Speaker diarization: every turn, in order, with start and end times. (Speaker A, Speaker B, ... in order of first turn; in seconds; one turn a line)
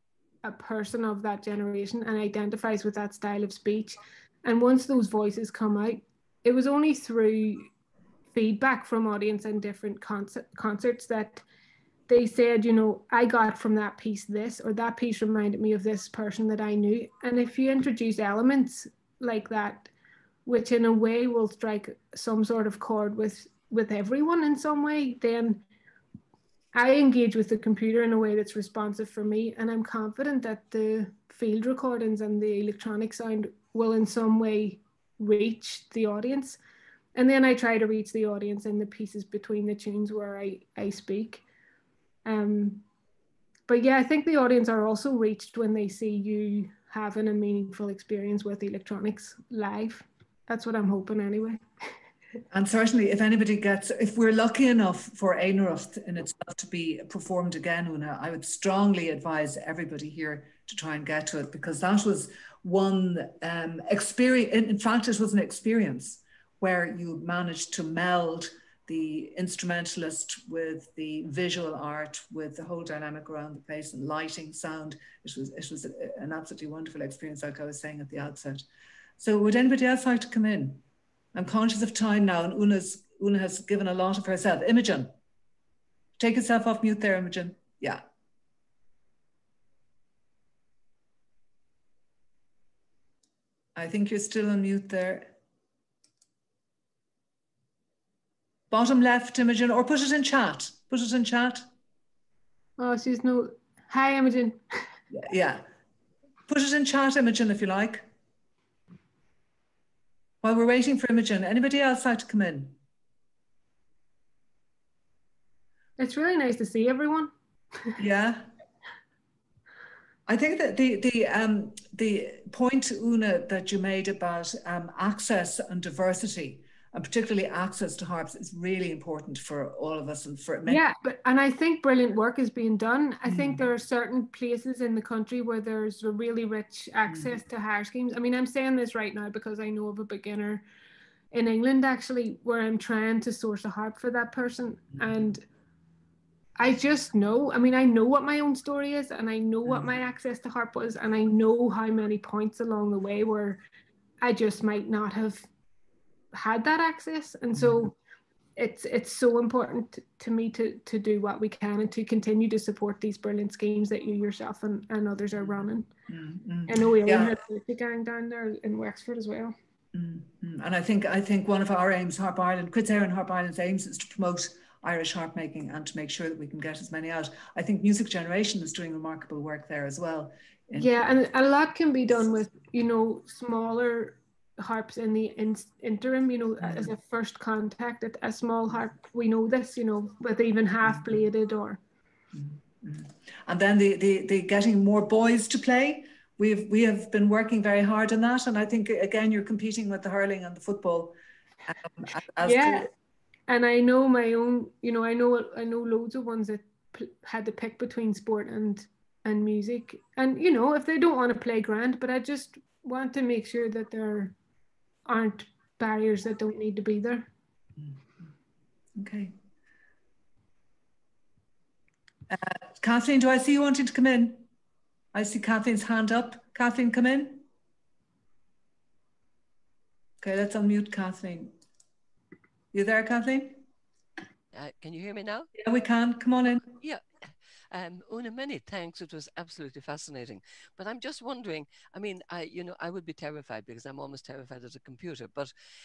Speaker A: 0.4-7.7
Speaker A: 8.3-11.4
Speaker A: 12.1-19.9
Speaker A: 20.4-25.6
Speaker A: 26.7-36.6
Speaker A: 37.1-41.4
Speaker A: 42.2-42.8
Speaker A: 43.7-51.6
Speaker B: 52.5-78.6
Speaker B: 79.2-80.8
Speaker B: 81.3-85.1
Speaker B: 86.2-88.0
Speaker B: 93.8-95.3
Speaker B: 98.7-101.7
Speaker A: 102.8-104.6
Speaker B: 105.1-105.7
Speaker B: 106.5-108.1
Speaker B: 110.4-112.8
Speaker A: 116.0-117.3
Speaker B: 118.0-118.5
Speaker B: 120.3-130.8
Speaker A: 130.7-140.6
Speaker B: 133.3-133.6
Speaker A: 141.3-145.4
Speaker A: 146.6-153.6
Speaker A: 154.2-155.5
Speaker A: 156.3-157.9
Speaker B: 157.5-157.9
Speaker A: 158.6-165.9
Speaker B: 165.4-167.4
Speaker A: 166.7-169.5
Speaker B: 169.9-181.0
Speaker A: 180.8-191.8
Speaker B: 186.6-186.9
Speaker B: 190.9-191.1
Speaker B: 192.3-201.2
Speaker B: 201.7-202.9
Speaker A: 202.4-202.9
Speaker A: 203.5-214.4
Speaker A: 215.1-217.3
Speaker B: 217.8-218.3
Speaker B: 218.9-219.3
Speaker B: 222.3-224.5
Speaker B: 225.1-227.4
Speaker B: 230.2-231.5
Speaker B: 232.7-233.6
Speaker C: 234.5-235.5
Speaker B: 235.5-236.7
Speaker C: 236.7-245.5